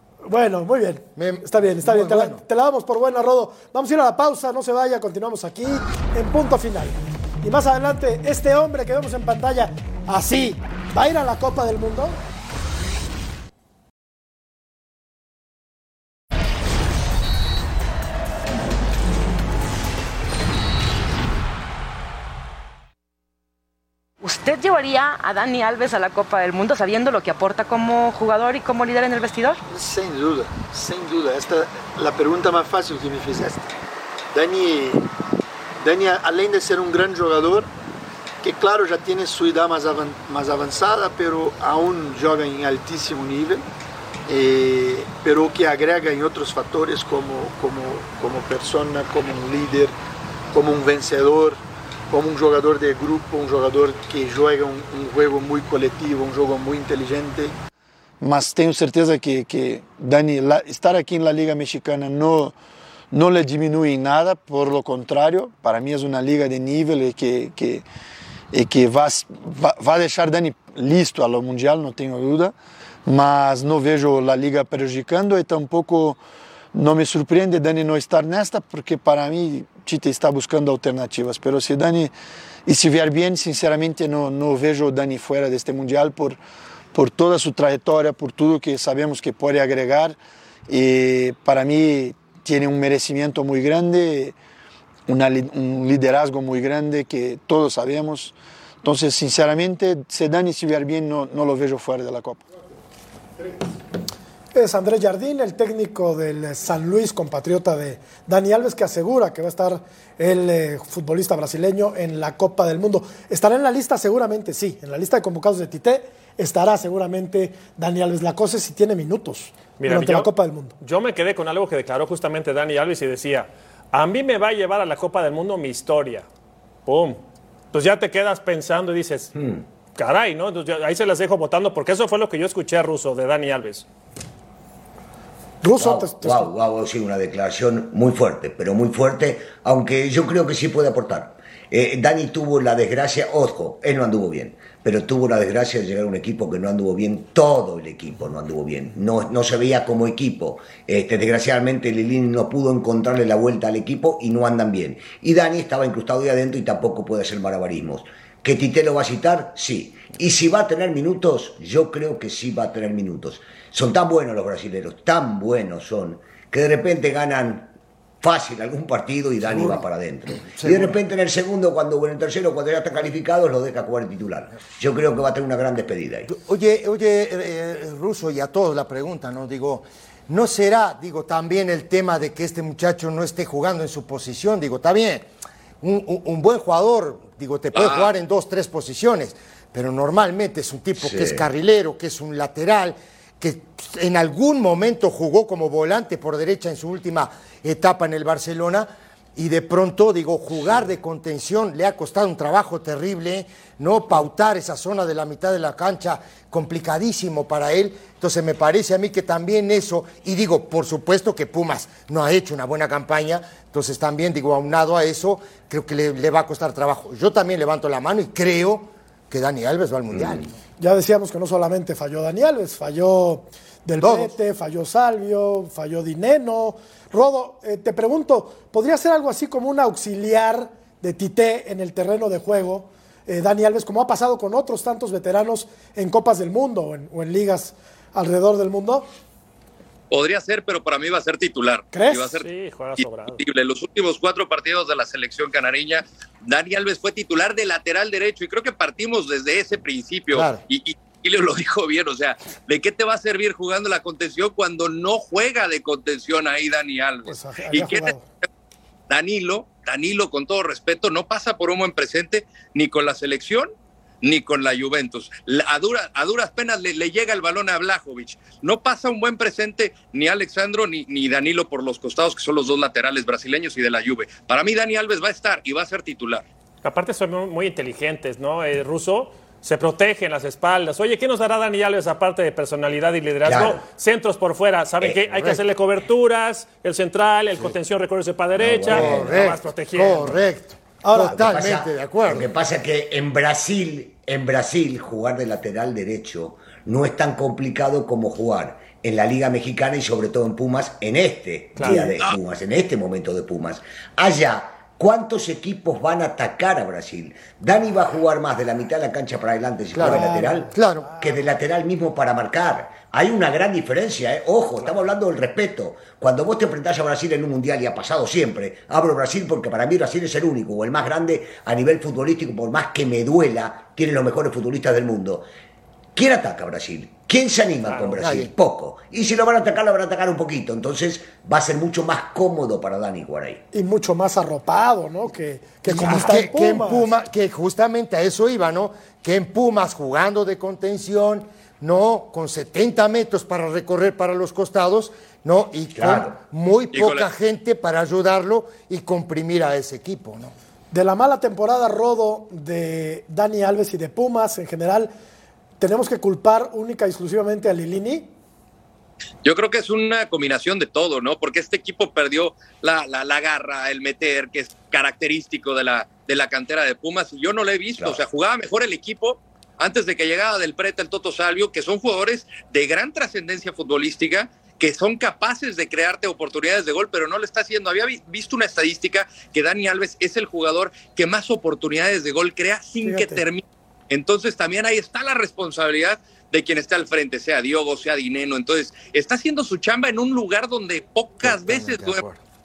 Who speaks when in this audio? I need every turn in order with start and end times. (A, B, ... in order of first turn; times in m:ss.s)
0:00.2-0:12.2 A
0:01.2-0:02.4 B
0:24.2-0:29.6 C
0:29.7-0:33.7 D
0:34.3-0:35.1 D
0:35.8-0:37.7 D
0:38.4-0:43.7 D
0:44.3-0:50.0 D
0:50.5-0:57.6 D
0:58.2-1:02.6 D
1:03.1-1:07.8 D
1:08.5-1:16.2 D
1:16.7-1:22.1 D
1:22.7-1:26.4 D
1:26.9-1:34.4 D
1:35.1-1:42.4 D
1:44.5-2:00.8 A
1:59.8-2:06.3 E
2:06.9-2:09.4 E
2:09.4-2:09.6 F
2:10.0-2:13.9 E
2:15.6-2:16.5 A
2:15.8-2:56.3 F
2:49.4-2:51.0 B
2:56.3-3:05.3 B
3:05.8-3:40.5 B
3:07.8-3:08.1 G
3:11.0-3:11.4 F
3:40.1-3:40.5 F
3:40.8-3:59.1 A
3:44.0-3:44.4 B
4:00.1-4:02.5 G
4:01.9-4:02.4 A
4:02.4-4:03.4 E
4:03.0-4:18.5 G
4:10.3-4:10.6 B
4:17.3-4:18.2 A
4:19.1-4:23.7 G
4:24.2-4:36.4 G
4:36.8-4:50.4 E
4:43.4-4:43.8 F
4:45.3-4:45.6 B
4:48.6-4:49.5 F
4:48.9-4:52.5 B
4:51.0-4:51.5 A
4:51.2-5:25.5 F
5:01.8-5:02.1 E
5:09.9-5:11.1 B
5:10.0-5:10.8 A
5:26.2-5:33.6 F
5:27.9-5:28.1 E
5:28.1-5:28.5 B
5:33.7-5:37.1 A
5:35.9-5:50.5 B
5:46.0-5:46.4 F
5:46.9-5:47.3 G
5:50.9-5:55.1 A
5:55.8-5:58.3 A
5:59.4-6:32.2 G
6:23.0-6:23.4 A
6:31.4-6:32.2 F